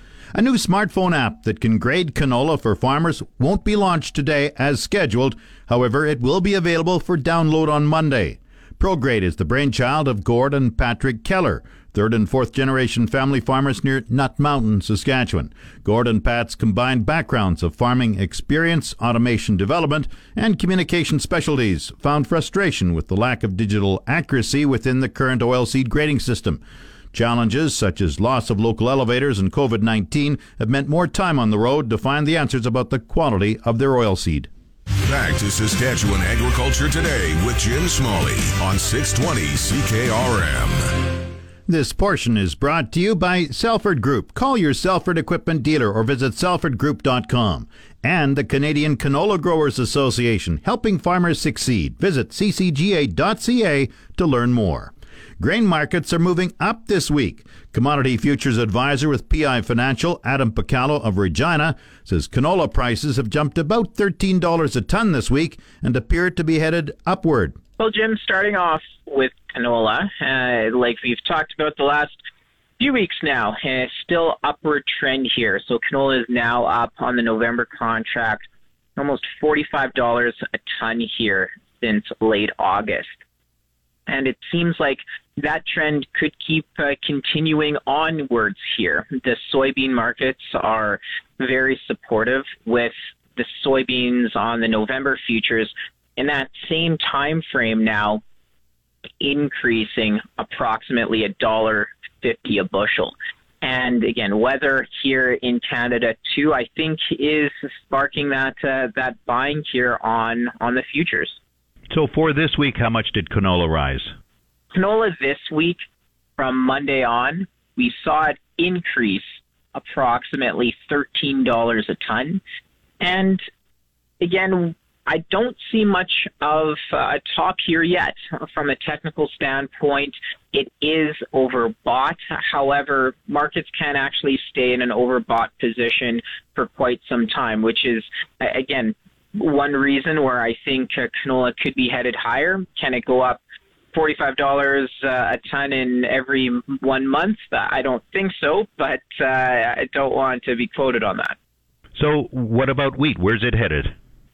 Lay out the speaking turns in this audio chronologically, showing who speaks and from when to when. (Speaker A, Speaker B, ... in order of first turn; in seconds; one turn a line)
Speaker A: 0.3-26.6
Speaker A: 27.1-34.5
Speaker B: 35.0-40.9
Speaker A: 41.7-67.6
Speaker C: 67.8-72.2
Speaker C: 72.8-78.5
Speaker C: 79.0-83.1
Speaker C: 84.1-98.2
Speaker C: 99.2-111.4
Speaker D: 111.9-114.1
Speaker C: 114.7-115.8
Speaker C: 116.4-122.4
Speaker C: 123.0-123.4
Speaker C: 124.2-143.4
Speaker C: 143.9-151.4
Speaker D: 152.0-153.9